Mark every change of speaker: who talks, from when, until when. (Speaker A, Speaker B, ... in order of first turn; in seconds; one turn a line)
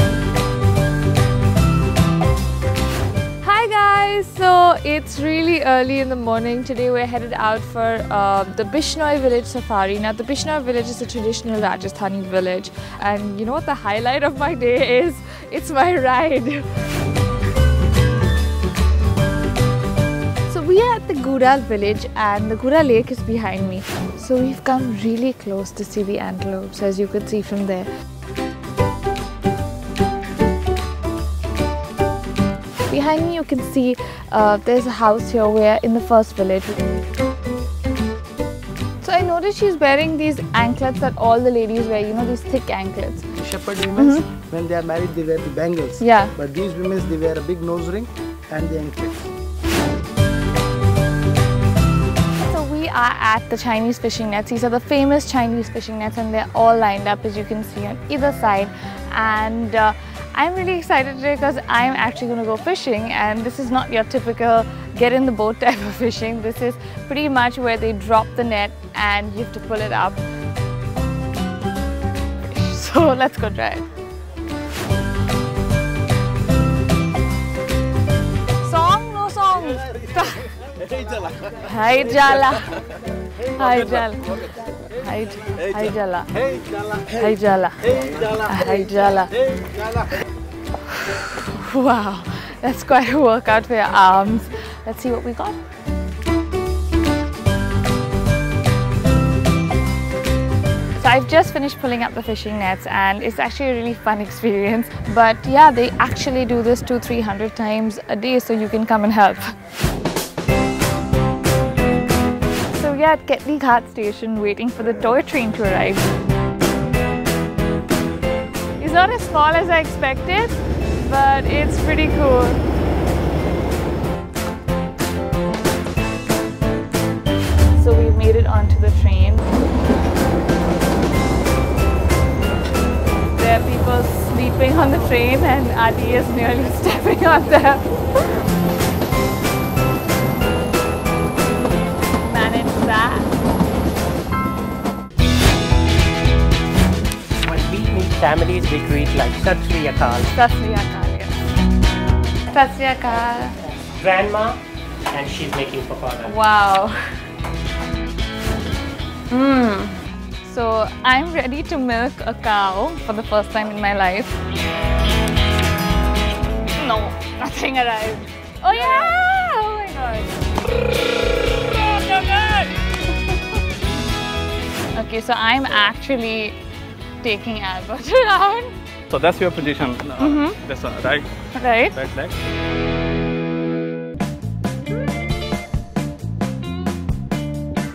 Speaker A: 3.4-16.7
Speaker A: 20.5-27.9
Speaker A: 32.9-36.8
Speaker A: 39.0-43.2
Speaker B: 43.4-49.3
Speaker A: 44.0-44.3
Speaker A: 46.0-46.3
Speaker A: 52.4-70.2
Speaker A: 72.4-73.9
Speaker A: 78.6-80.5
Speaker A: 81.6-82.8
Speaker A: 83.4-86.4
Speaker A: 86.9-89.3
Speaker A: 90.9-95.6
Speaker A: 101.0-109.5
Speaker A: 112.7-116.1
Speaker A: 118.8-122.6
Speaker A: 127.8-129.5
Speaker A: 133.3-137.9
Speaker A: 142.2-143.4
Speaker C: 147.4-150.3
Speaker A: 150.3-151.4
Speaker A: 152.5-153.6
Speaker C: 153.9-154.6
Speaker C: 155.1-156.3
Speaker A: 156.2-157.0
Speaker A: 159.3-164.3
Speaker A: 166.7-170.3
Speaker A: 171.6-173.3
Speaker A: 174.9-176.6
Speaker A: 177.2-178.8
Speaker D: 179.1-181.3
Speaker A: 180.2-180.6
Speaker A: 181.5-182.0
Speaker D: 181.9-182.3